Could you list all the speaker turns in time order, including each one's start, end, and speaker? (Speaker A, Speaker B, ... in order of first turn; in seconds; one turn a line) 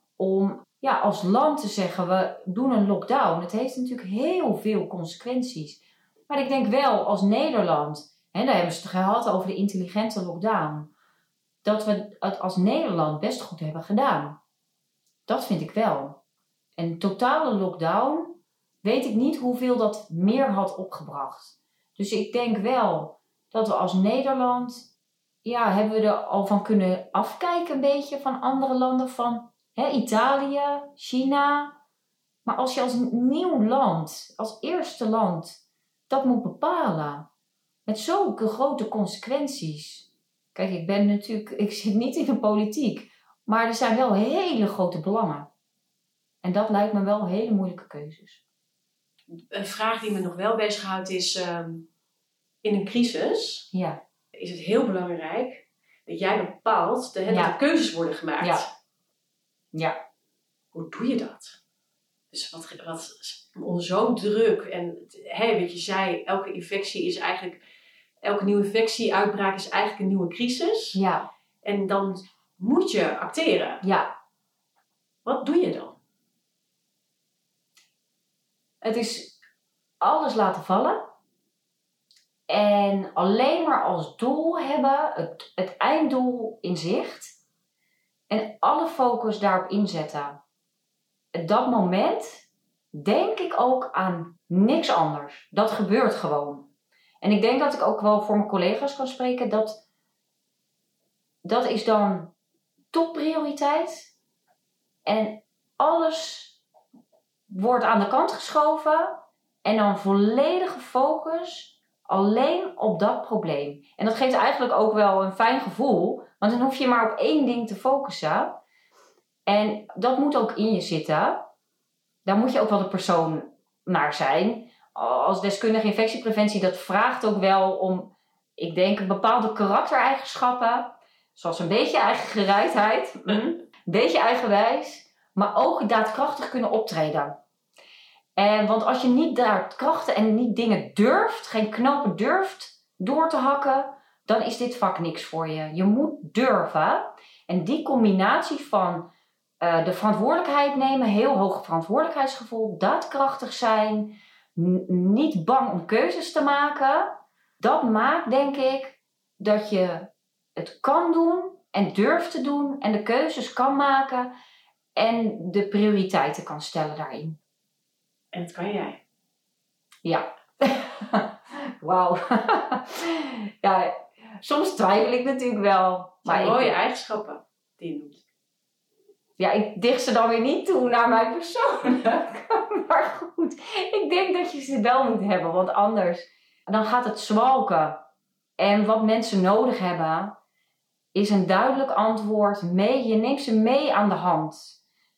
Speaker A: 0.2-10.9
Speaker A: 11.6-14.4
Speaker A: 15.3-16.2
Speaker A: 16.8-24.9
Speaker A: 25.4-31.8
Speaker A: 32.5-37.3
Speaker A: 37.9-45.5
Speaker A: 46.4-48.4
Speaker B: 49.5-51.9
Speaker B: 52.6-53.7
Speaker A: 53.7-54.0
Speaker B: 54.3-58.7
Speaker A: 57.3-57.5
Speaker A: 58.4-58.7
Speaker A: 59.7-60.0
Speaker B: 60.7-61.6
Speaker B: 62.3-67.6
Speaker B: 68.2-71.0
Speaker A: 71.0-71.3
Speaker B: 71.6-73.8
Speaker A: 73.8-74.1
Speaker B: 75.2-76.0
Speaker A: 78.8-79.4
Speaker A: 80.0-81.1
Speaker A: 82.5-87.4
Speaker A: 88.3-90.4
Speaker A: 91.3-96.7
Speaker A: 97.2-99.8
Speaker A: 101.4-102.3
Speaker A: 102.9-104.1
Speaker A: 105.0-106.6
Speaker A: 107.5-118.6
Speaker A: 119.5-121.5
Speaker A: 122.2-137.4
Speaker A: 138.4-149.1
Speaker A: 149.6-164.3
Speaker A: 164.9-167.4
Speaker B: 168.3-169.0
Speaker A: 170.0-176.8
Speaker B: 176.2-178.2
Speaker A: 179.4-188.0
Speaker A: 188.6-190.4
Speaker A: 191.1-194.8